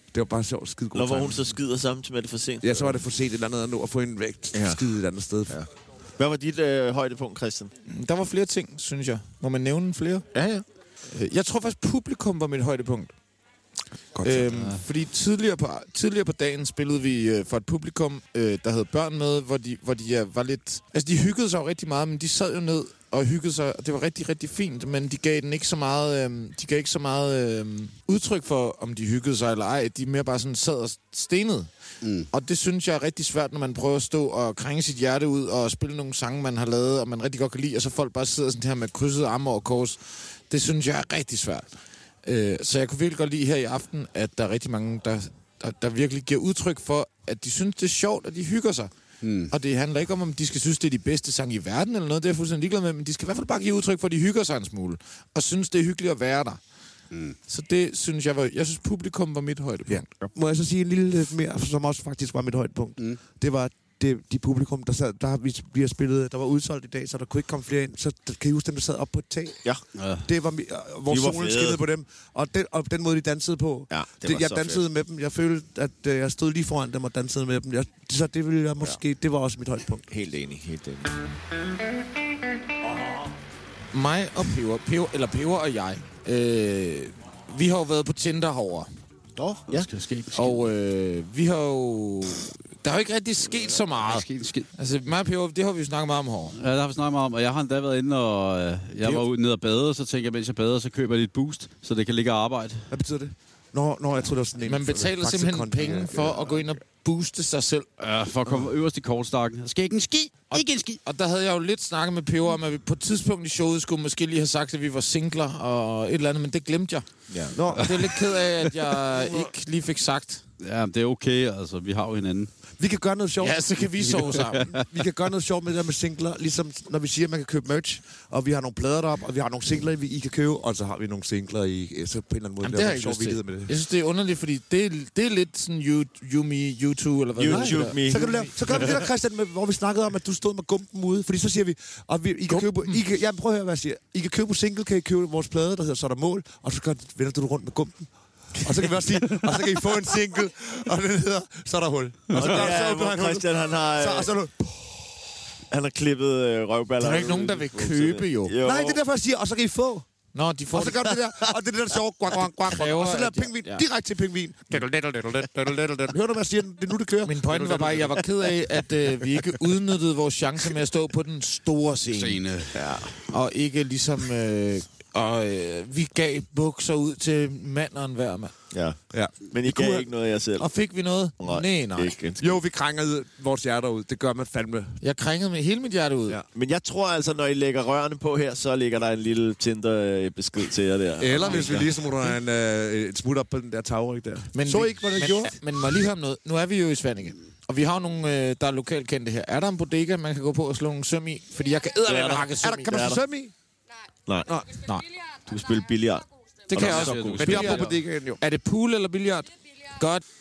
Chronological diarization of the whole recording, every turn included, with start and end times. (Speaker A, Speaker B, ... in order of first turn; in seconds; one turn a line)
Speaker A: 0.1-1.5
Speaker B: 0.9-2.9
Speaker A: 2.6-5.6
Speaker B: 4.5-4.8
Speaker B: 5.5-7.7
Speaker C: 7.8-10.4
Speaker B: 10.3-10.6
Speaker C: 11.1-13.1
Speaker A: 14.1-14.5
Speaker C: 14.2-31.7
Speaker D: 14.5-14.8
Speaker D: 32.0-32.3
Speaker C: 32.3-41.7
Speaker C: 42.2-48.9
Speaker D: 49.2-49.5
Speaker C: 49.5-56.6
Speaker C: 57.5-60.0
Speaker A: 59.9-69.6
Speaker D: 70.0-70.3
Speaker A: 70.2-80.1
Speaker B: 71.1-71.8
Speaker B: 73.9-74.8
Speaker B: 80.1-81.1
Speaker C: 83.9-88.9
Speaker B: 89.4-89.9
Speaker D: 89.7-90.6
Speaker C: 90.3-96.6
Speaker D: 93.9-94.7
Speaker D: 96.5-102.9
Speaker A: 102.9-106.7
Speaker C: 104.6-107.9
Speaker D: 108.0-111.0
Speaker C: 110.5-117.1
Speaker B: 117.3-117.6
Speaker A: 117.5-118.3
Speaker C: 117.6-120.4
Speaker A: 119.1-119.5
Speaker D: 120.6-122.5
Speaker A: 122.8-133.7
Speaker C: 123.4-124.7
Speaker D: 124.0-124.8
Speaker C: 132.6-138.8
Speaker B: 137.4-139.0
Speaker A: 137.5-155.3
Speaker C: 142.5-143.0
Speaker D: 152.3-152.6
Speaker B: 152.3-154.3
Speaker B: 155.7-159.0
Speaker C: 157.0-158.5
Speaker A: 158.6-160.1
Speaker C: 160.3-161.1
Speaker A: 160.7-168.2
Speaker C: 162.6-163.8
Speaker C: 167.2-172.4
Speaker D: 172.1-173.0
Speaker B: 172.7-173.2
Speaker C: 173.2-178.5
Speaker B: 178.7-180.7
Speaker A: 179.1-180.1
Speaker C: 180.6-182.2
Speaker B: 181.4-182.5
Speaker A: 182.4-185.0
Speaker C: 185.0-186.4
Speaker B: 186.5-191.9
Speaker A: 191.2-195.6
Speaker C: 191.5-191.8
Speaker C: 194.5-203.2
Speaker B: 202.1-203.2
Speaker A: 202.6-203.5
Speaker B: 204.2-204.6
Speaker A: 204.5-204.7
Speaker C: 204.7-205.1
Speaker B: 205.4-207.7
Speaker C: 206.7-210.2
Speaker D: 206.7-207.9
Speaker A: 207.4-208.4